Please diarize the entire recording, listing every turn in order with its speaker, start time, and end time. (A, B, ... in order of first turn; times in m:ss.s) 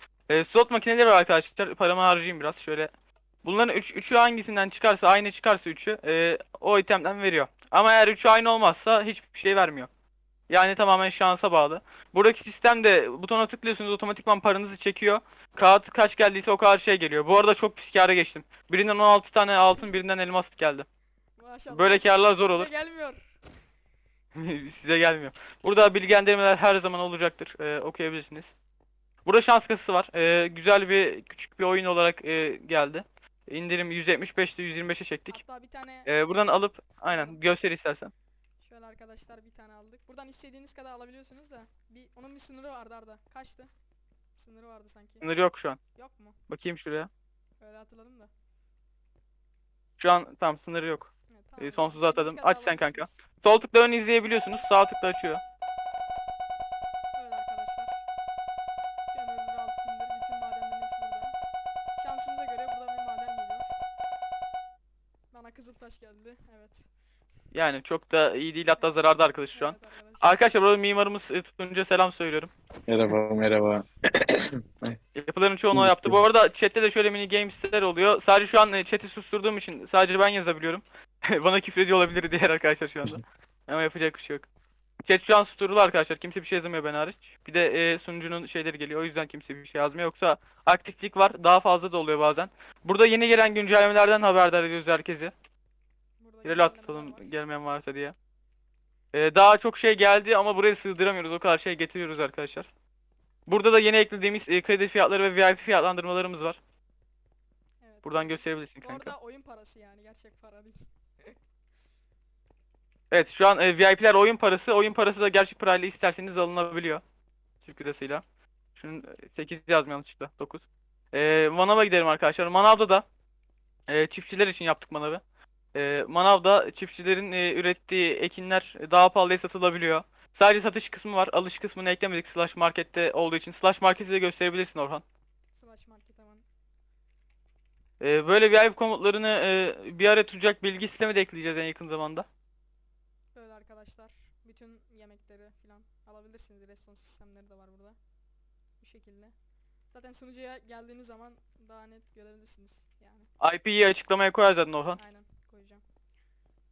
0:00.3-0:02.9 A
0:03.4-0:09.9 A
0:10.5-0:20.9 A
0:21.4-0:23.4 B
0:21.7-0:22.7 A
0:24.3-0:28.5 A
0:29.2-0:35.4 A
0:35.3-0:37.4 B
0:36.0-0:38.1 A
0:38.6-0:43.7 B
0:44.3-0:45.2 B
0:45.2-0:45.8 A
0:45.9-0:46.4 B
0:46.5-0:47.1 A
0:47.6-0:48.3 B
0:50.0-0:55.4 A
0:51.3-0:53.2 B
0:54.3-0:54.6 B
0:57.1-0:58.0 B
0:59.1-1:01.4 B
1:02.0-1:03.8 B
1:05.3-1:06.9 B
1:07.5-1:12.5 A
1:08.7-1:10.4 B
1:12.9-1:15.0 C
1:15.1-1:24.5 A
1:15.7-1:16.2 C
1:25.0-1:35.3 A
1:36.2-1:37.3 B
1:36.4-1:38.1 A
1:39.1-1:42.7 A
1:43.5-1:46.6 A
1:47.8-1:51.4 B
1:48.0-1:49.1 A
1:53.1-1:57.0 A
1:57.6-1:58.2 A
1:58.7-2:03.0 A
2:03.9-2:05.2 A
2:05.7-2:15.0 A
2:15.5-2:16.4 B
2:18.0-2:22.3 A
2:23.3-2:28.0 B
2:28.8-2:29.3 B
2:29.9-2:33.3 B
2:33.4-2:35.0 A
2:35.0-2:35.8 B